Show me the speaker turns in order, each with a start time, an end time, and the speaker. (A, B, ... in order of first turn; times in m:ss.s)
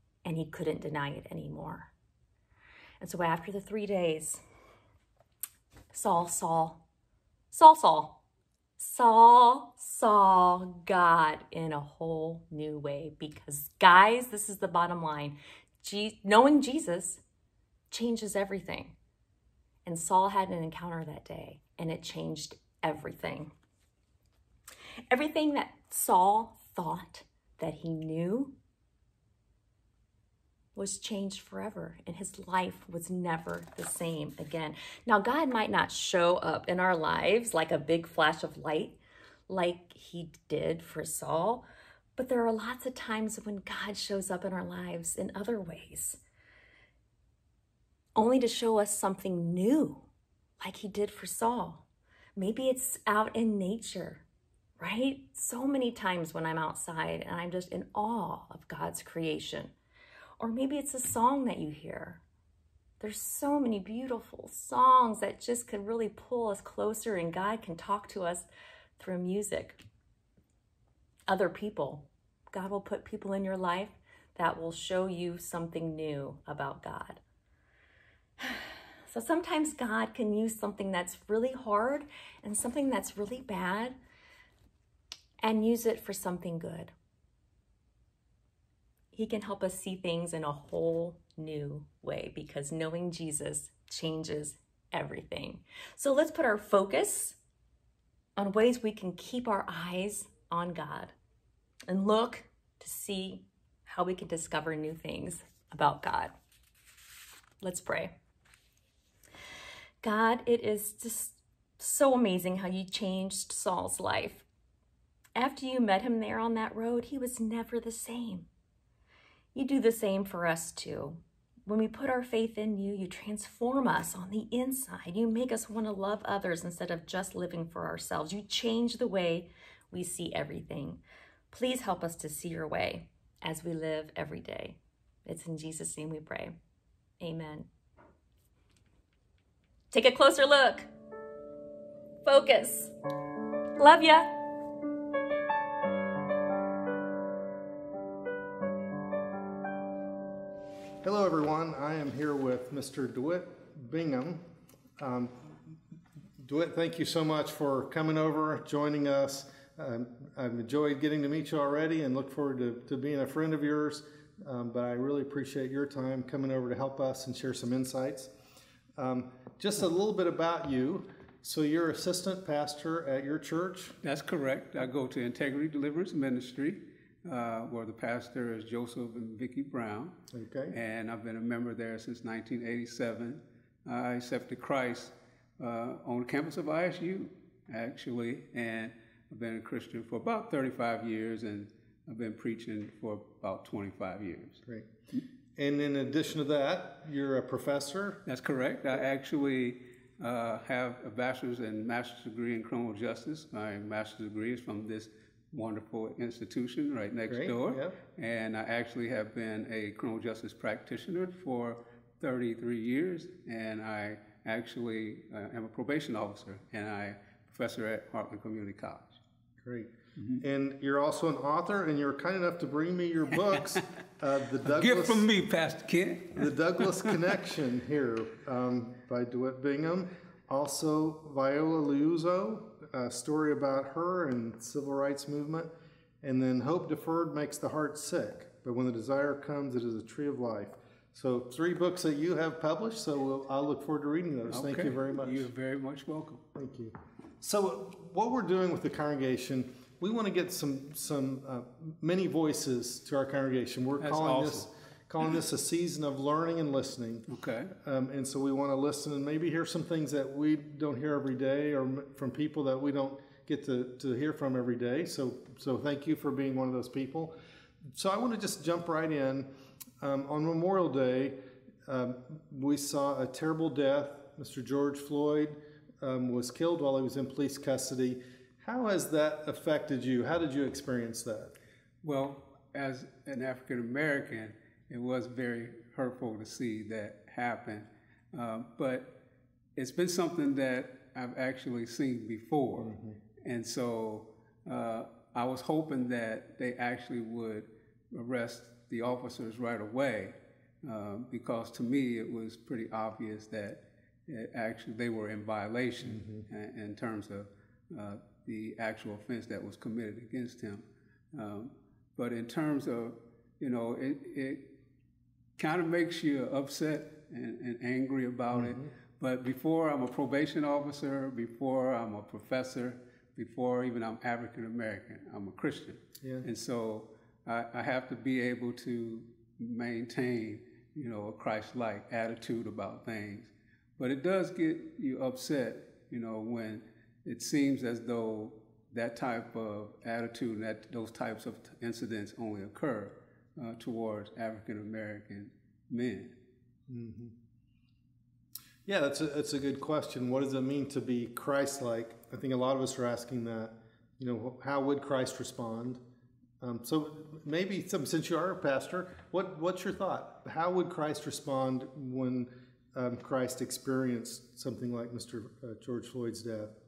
0:00.2-0:01.9 A
0:03.0-0:04.4 A
0:05.9-0:06.8 A
0:07.5-0:08.2 A
0:08.8-0:17.2 A
0:17.9-0:19.0 A
0:19.8-0:23.5 A
0:25.1-0:28.5 A
0:30.8-0:39.0 A
0:39.5-0:41.6 A
0:42.2-0:46.2 A
0:48.2-0:50.0 A
0:50.6-0:51.8 A
0:52.4-0:54.2 A
0:54.8-0:59.7 A
1:00.4-1:02.2 A
1:03.0-1:08.5 A
1:09.0-1:09.8 A
1:11.3-1:17.2 A
1:18.4-1:24.0 A
1:25.4-1:26.9 A
1:29.1-1:37.4 A
1:38.4-1:41.1 A
1:41.9-1:46.3 A
1:47.6-1:48.1 A
1:50.0-1:54.4 A
1:55.4-1:58.5 A
1:59.5-2:16.6 A
2:17.2-2:17.7 A
2:19.9-2:20.9 A
2:22.2-2:22.9 A
2:23.8-2:24.3 A
2:31.0-2:34.4 B
2:35.0-2:35.7 B
2:36.4-2:48.3 B
2:49.0-2:54.0 B
2:54.0-3:00.2 C
3:00.3-3:00.8 B
3:00.7-3:14.6 C
3:15.6-3:18.2 B
3:18.3-3:39.2 C
3:27.3-3:28.0 B
3:39.6-3:45.3 B
3:40.2-3:40.4 C
3:43.5-3:43.8 C
3:44.6-3:47.2 C
3:46.4-3:55.7 B
3:56.2-4:05.5 B
4:04.5-4:06.4 C
4:06.6-4:17.3 B
4:14.0-4:14.7 C
4:17.3-4:17.7 C
4:17.8-4:27.4 B
4:27.9-4:29.5 B
4:30.0-4:41.5 B
4:42.0-4:49.1 C
4:49.8-5:14.6 C
4:52.8-4:53.2 B
5:06.0-5:06.4 B
5:15.6-5:46.3 C
5:18.5-5:18.9 B
5:46.9-5:47.3 B
5:48.9-5:56.0 B
5:56.6-6:06.7 B